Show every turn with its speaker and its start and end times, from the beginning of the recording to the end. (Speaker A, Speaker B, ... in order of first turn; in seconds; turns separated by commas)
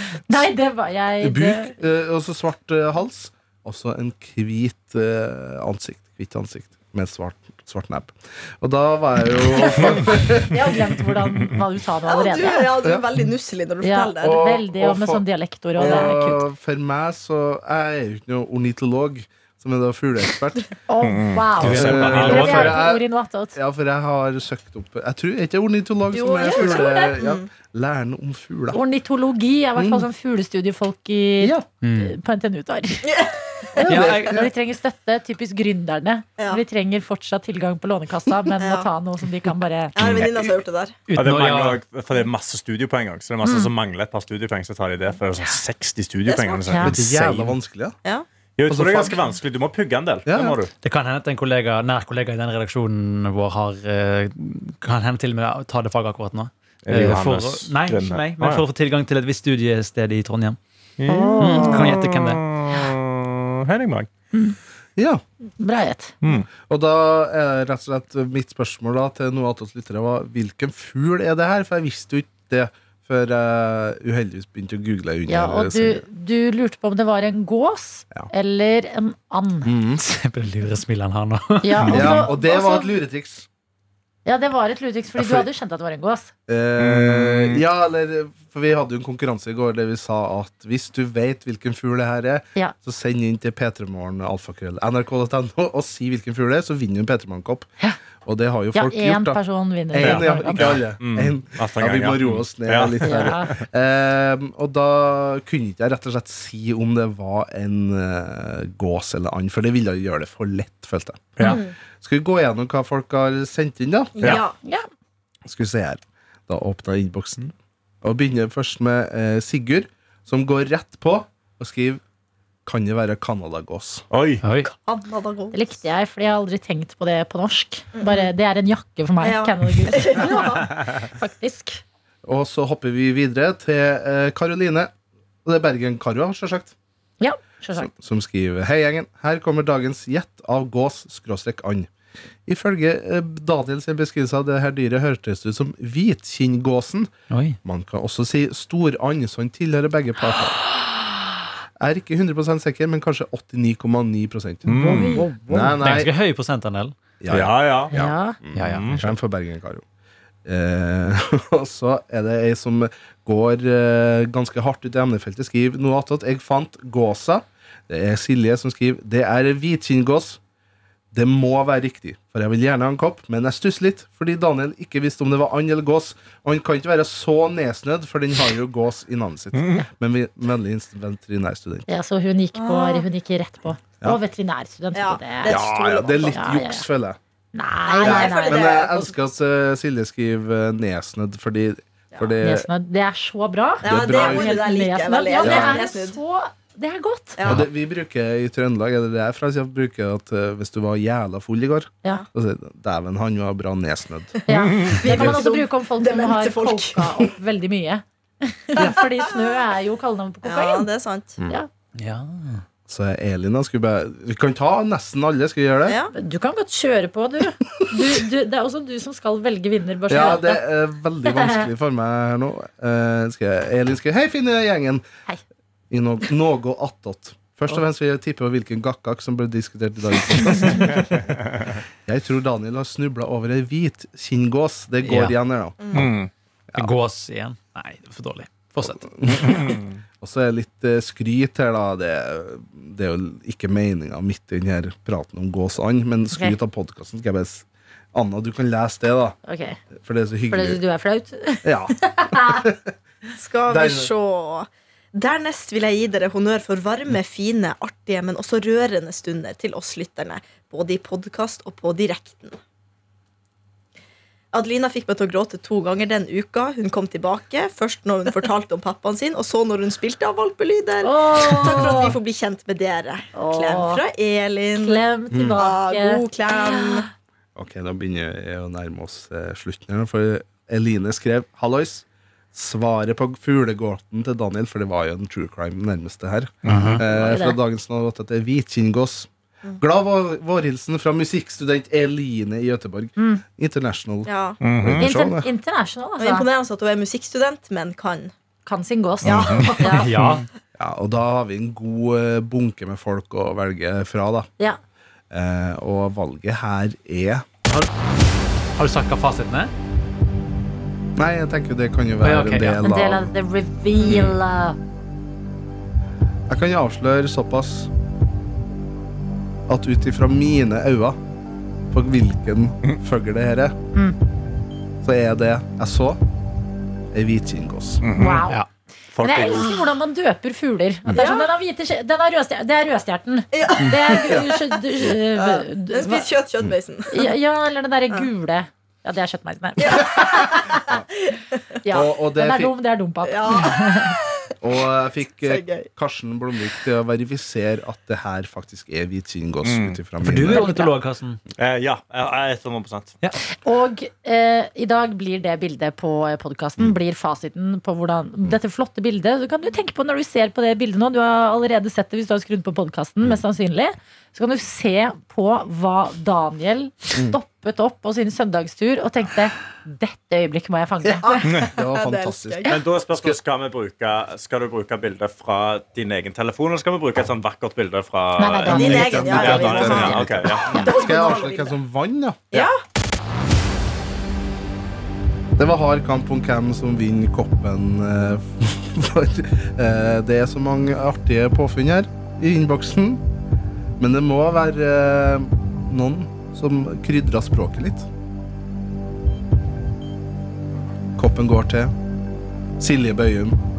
Speaker A: 0.1-1.7, Speaker B: 1.2-10.8, Speaker A: 9.6-12.7, Speaker C: 12.1-14.6, Speaker A: 13.8-16.4, Speaker B: 14.2-15.2, Speaker B: 15.8-20.6, Speaker A: 20.9-23.6, Speaker D: 21.0-22.7, Speaker E: 21.6-22.8, Speaker B: 21.7-28.8, Speaker C: 26.1-27.5, Speaker A: 26.4-27.1, Speaker A: 28.7-33.1, Speaker B: 29.8-30.1, Speaker B: 31.4-31.7, Speaker E: 31.8-32.1, Speaker C: 33.0-33.9, Speaker B: 33.8-34.5, Speaker E: 33.9-34.5, Speaker A: 34.0-39.9, Speaker C: 38.6-38.9, Speaker C: 40.0-41.0, Speaker D: 40.0-40.3, Speaker E: 41.1-41.8, Speaker D: 41.2-47.5, Speaker A: 43.4-43.7, Speaker C: 46.3-46.7, Speaker A: 46.7-47.0, Speaker B: 46.8-48.0, Speaker D: 48.6-50.7, Speaker B: 48.7-49.2, Speaker B: 50.3-50.6, Speaker E: 50.8-60.6, Speaker D: 56.9-58.6, Speaker D: 61.0-64.1, Speaker A: 61.1-61.9, Speaker E: 61.4-62.4, Speaker B: 65.0-65.2, Speaker A: 65.6-66.1, Speaker D: 66.2-66.5, Speaker B: 66.6-76.0, Speaker A: 75.3-79.7, Speaker B: 79.7-80.0, Speaker E: 80.0-82.3, Speaker A: 81.6-82.9, Speaker B: 81.9-83.5, Speaker A: 84.3-86.3, Speaker B: 85.2-85.5, Speaker B: 86.5-97.7, Speaker D: 86.8-87.6, Speaker B: 98.2-99.4, Speaker A: 98.7-100.8, Speaker B: 99.9-111.5, Speaker D: 100.0-103.5, Speaker A: 103.0-103.5, Speaker C: 111.4-111.8, Speaker B: 112.0-114.2, Speaker C: 114.2-114.5, Speaker A: 114.6-114.9, Speaker B: 115.5-122.0, Speaker B: 122.7-124.0, Speaker D: 124.1-124.4, Speaker E: 124.4-124.7, Speaker C: 124.6-125.8, Speaker A: 125.5-131.8, Speaker C: 128.0-128.3, Speaker C: 129.2-130.8, Speaker B: 132.2-134.9, Speaker B: 135.4-136.7, Speaker A: 137.2-137.9, Speaker B: 137.8-141.9, Speaker B: 142.5-147.1, Speaker E: 147.3-147.6, Speaker B: 147.6-150.6, Speaker B: 151.8-156.1, Speaker D: 154.7-155.2, Speaker A: 154.8-155.8, Speaker E: 155.8-157.0, Speaker B: 157.2-159.8, Speaker D: 157.3-157.9, Speaker A: 157.9-158.4, Speaker E: 158.6-159.1, Speaker D: 158.6-159.0, Speaker B: 160.4-170.4, Speaker B: 171.1-181.9, Speaker D: 179.5-179.8, Speaker A: 181.9-185.6, Speaker C: 182.6-183.1, Speaker C: 184.9-186.4, Speaker B: 185.5-187.2, Speaker A: 186.3-186.9, Speaker A: 187.5-188.7, Speaker C: 187.9-189.2, Speaker B: 188.0-192.7, Speaker A: 192.4-197.4, Speaker B: 193.8-194.6, Speaker C: 193.8-196.2, Speaker B: 195.4-195.9, Speaker C: 197.4-197.7, Speaker B: 197.4-204.3, Speaker A: 204.5-210.9, Speaker C: 204.7-207.3, Speaker C: 210.4-211.4, Speaker E: 212.0-212.6, Speaker B: 212.9-216.0, Speaker C: 215.9-216.1, Speaker A: 216.2-220.6, Speaker B: 217.9-218.2, Speaker B: 220.1-225.0, Speaker A: 221.3-221.6, Speaker B: 225.9-231.3, Speaker B: 232.1-236.1, Speaker E: 235.0-235.3, Speaker C: 235.8-236.1, Speaker D: 235.9-236.3, Speaker E: 236.8-239.1, Speaker B: 238.9-249.4, Speaker D: 239.4-240.0, Speaker A: 249.5-249.8, Speaker B: 250.0-250.8, Speaker A: 250.5-252.6, Speaker B: 251.6-252.9, Speaker C: 253.3-262.6, Speaker B: 253.7-254.1, Speaker C: 264.5-277.1, Speaker A: 271.0-272.2, Speaker A: 273.3-274.0, Speaker A: 274.8-277.1, Speaker B: 275.3-275.6, Speaker B: 277.6-295.5, Speaker D: 286.6-287.0, Speaker E: 286.7-287.0, Speaker A: 287.0-287.6, Speaker A: 293.2-293.4, Speaker C: 294.3-294.6, Speaker D: 294.6-295.1, Speaker A: 295.0-296.5, Speaker C: 296.2-298.3, Speaker A: 298.7-300.1, Speaker C: 299.2-300.1, Speaker D: 299.3-300.4, Speaker E: 299.9-300.5, Speaker B: 300.8-304.5, Speaker B: 305.3-307.5, Speaker E: 308.8-309.7, Speaker B: 311.2-313.3, Speaker E: 312.2-312.9, Speaker A: 312.8-314.8, Speaker B: 316.5-317.9, Speaker B: 319.7-321.2, Speaker B: 321.9-323.8, Speaker B: 325.0-326.2, Speaker B: 327.1-328.0, Speaker D: 328.0-328.5, Speaker A: 328.1-328.6, Speaker D: 329.1-329.8, Speaker A: 329.2-336.3, Speaker C: 331.1-331.5, Speaker C: 333.5-337.3, Speaker A: 337.1-340.6, Speaker C: 339.8-341.6, Speaker A: 341.8-344.1, Speaker B: 341.9-342.7, Speaker C: 343.2-344.5, Speaker B: 344.6-350.7, Speaker C: 345.4-345.9, Speaker D: 349.6-350.0, Speaker E: 350.2-351.4, Speaker A: 350.5-350.9, Speaker D: 351.6-353.2, Speaker A: 353.6-371.3, Speaker B: 371.0-373.4, Speaker C: 371.2-372.8, Speaker D: 372.7-380.7, Speaker A: 378.4-379.4, Speaker B: 378.7-382.7, Speaker C: 378.7-381.8, Speaker A: 380.7-381.0, Speaker C: 382.5-382.8, Speaker B: 385.6-393.2, Speaker B: 394.0-398.1, Speaker B: 401.2-401.9, Speaker B: 402.8-403.6